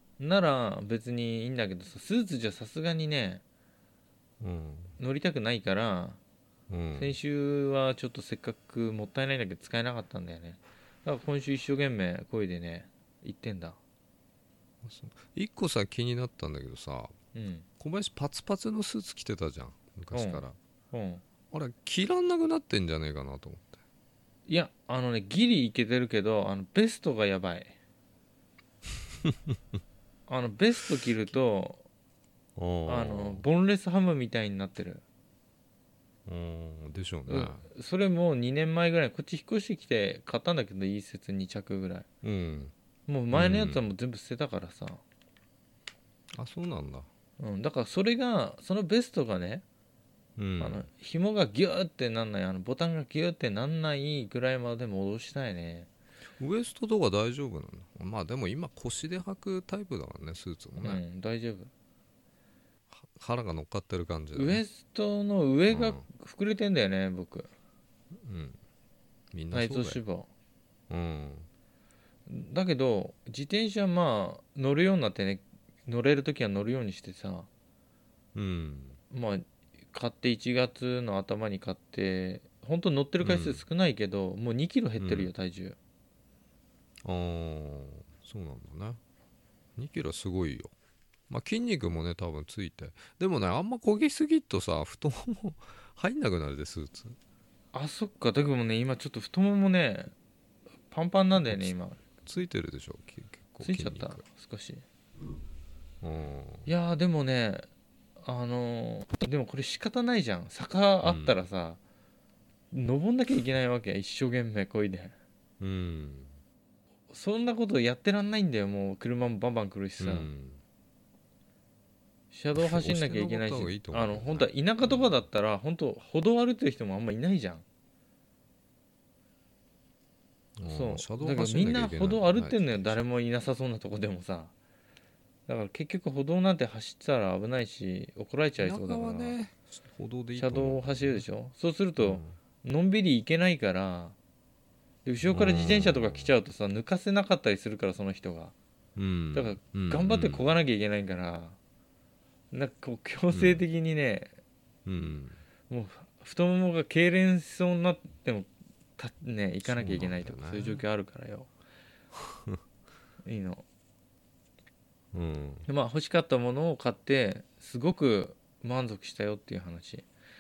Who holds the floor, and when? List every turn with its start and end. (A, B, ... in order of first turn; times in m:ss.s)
0:00.2-0:03.4 A
0:04.4-0:05.0 B
0:05.0-0:06.2 A
0:06.7-0:07.2 B
0:07.0-0:13.8 A
0:14.8-0:17.2 B
0:17.4-0:17.7 A
0:17.8-0:20.6 B
0:20.1-0:21.2 A
0:21.5-0:23.8 B
0:24.5-0:27.7 A
0:29.2-0:29.5 B
0:30.3-0:31.8 A
0:32.6-0:33.4 B
0:32.9-0:35.0 A
0:36.3-0:37.6 B
0:37.3-0:42.1 A
0:42.2-0:42.7 B
0:43.1-0:45.0 A
0:43.3-0:43.8 B
0:46.4-0:47.1 B
0:47.4-0:49.6 A
0:50.4-0:50.9 B
0:50.6-0:55.9 A
0:56.4-1:01.0 B
1:00.8-1:01.7 A
1:02.9-1:04.6 B
1:04.3-1:07.5 A
1:05.7-1:06.0 B
1:08.1-1:08.6 B
1:09.3-1:10.0 B
1:09.5-1:10.3 A
1:10.9-1:11.5 B
1:12.3-1:17.5 A
1:18.4-1:19.0 B
1:19.1-1:25.8 A
1:23.2-1:23.6 B
1:25.0-1:25.3 B
1:27.0-1:29.0 B
1:29.8-1:30.7 B
1:31.3-1:37.2 B
1:37.7-1:40.1 A
1:40.9-1:42.0 A
1:41.5-1:44.2 B
1:43.6-1:44.8 A
1:46.0-1:46.7 B
1:46.7-1:47.7 A
1:48.2-1:51.8 A
1:51.0-1:51.4 B
1:52.7-1:55.1 A
1:55.6-1:56.3 B
1:57.1-2:00.3 A
2:00.0-2:00.6 B
2:02.3-2:07.6 A
2:02.6-2:05.0 B
2:10.6-2:13.0 B
2:10.7-2:14.5 A
2:15.5-2:19.4 A
2:18.6-2:21.2 B
2:20.4-2:24.2 A
2:22.0-2:22.4 B
2:25.0-2:28.5 A
2:25.2-2:26.3 B
2:29.0-2:30.6 B
2:29.3-2:31.6 A
2:32.5-2:34.4 A
2:33.3-2:33.6 B
2:34.9-2:35.4 B
2:35.7-2:41.5 A
2:39.6-2:40.8 B
2:42.2-2:42.6 B
2:43.2-2:43.6 A
2:45.1-2:45.7 B
2:45.7-2:50.1 A